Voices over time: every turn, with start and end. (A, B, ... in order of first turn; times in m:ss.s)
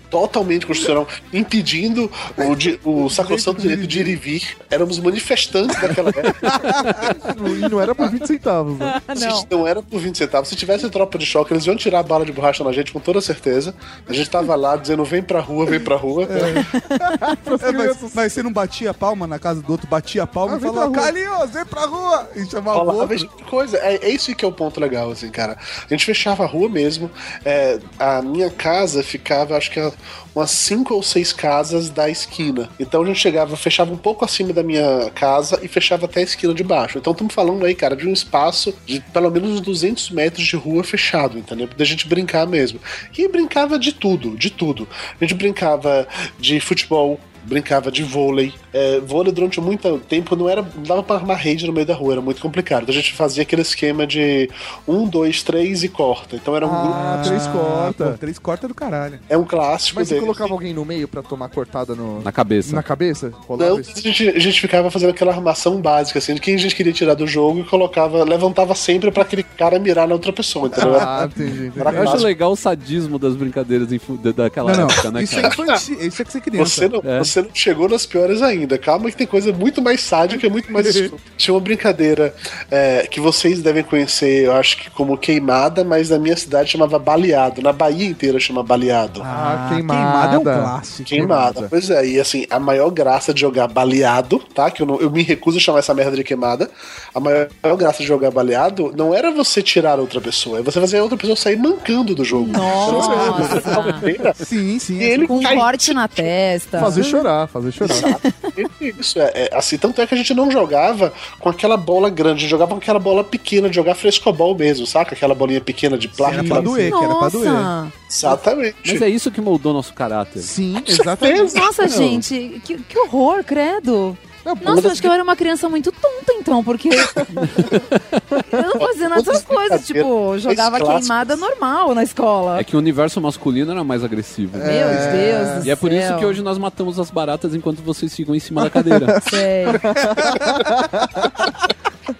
0:00.1-0:06.5 A
0:03.0-0:04.2 B
0:06.4-0:07.3 B
0:07.1-0:09.0 C
0:08.8-0:09.5 D
0:09.1-0:16.6 A
0:16.3-0:16.7 B
0:16.7-0:17.2 D
0:17.1-0:18.2 C
0:17.6-0:23.3 B
0:20.4-0:21.1 C
0:22.7-0:57.4 A
0:56.6-0:58.2 C
0:56.9-0:59.2 B
0:59.3-1:00.5 A
0:59.9-1:04.0 C
1:02.2-1:02.8 E
1:03.6-1:11.2 A
1:10.7-1:12.2 B
1:10.8-1:12.2 C
1:11.8-1:12.3 A
1:11.9-1:15.5 E
1:14.6-1:16.9 B
1:15.4-1:15.8 A
1:16.6-1:29.3 A
1:17.0-1:17.3 E
1:20.7-1:21.1 B
1:29.2-1:31.3 B
1:29.3-1:31.7 C
1:31.1-1:44.4 A
1:42.4-1:44.0 D
1:42.7-1:43.8 C
1:43.2-1:43.8 B
1:44.4-1:45.5 B
1:45.0-1:46.3 A
1:45.2-1:47.3 D
1:46.8-1:48.1 C
1:47.8-1:57.0 A
1:48.0-1:48.5 D
1:56.2-1:57.7 B
1:56.4-1:57.9 D
1:58.1-1:59.0 A
1:58.8-2:00.5 E
2:00.4-2:01.6 B
2:00.8-2:01.6 A
2:01.4-2:07.2 D
2:01.9-2:02.2 E
2:04.4-2:05.0 C
2:04.6-2:05.0 A
2:07.3-2:08.2 E
2:08.4-2:12.6 D
2:08.8-2:11.4 A
2:12.6-2:15.1 E
2:14.6-2:15.6 C
2:14.6-2:16.4 D
2:15.6-2:19.2 E
2:18.9-2:21.0 C
2:19.2-2:19.9 D
2:20.0-2:20.5 B
2:20.3-2:20.6 A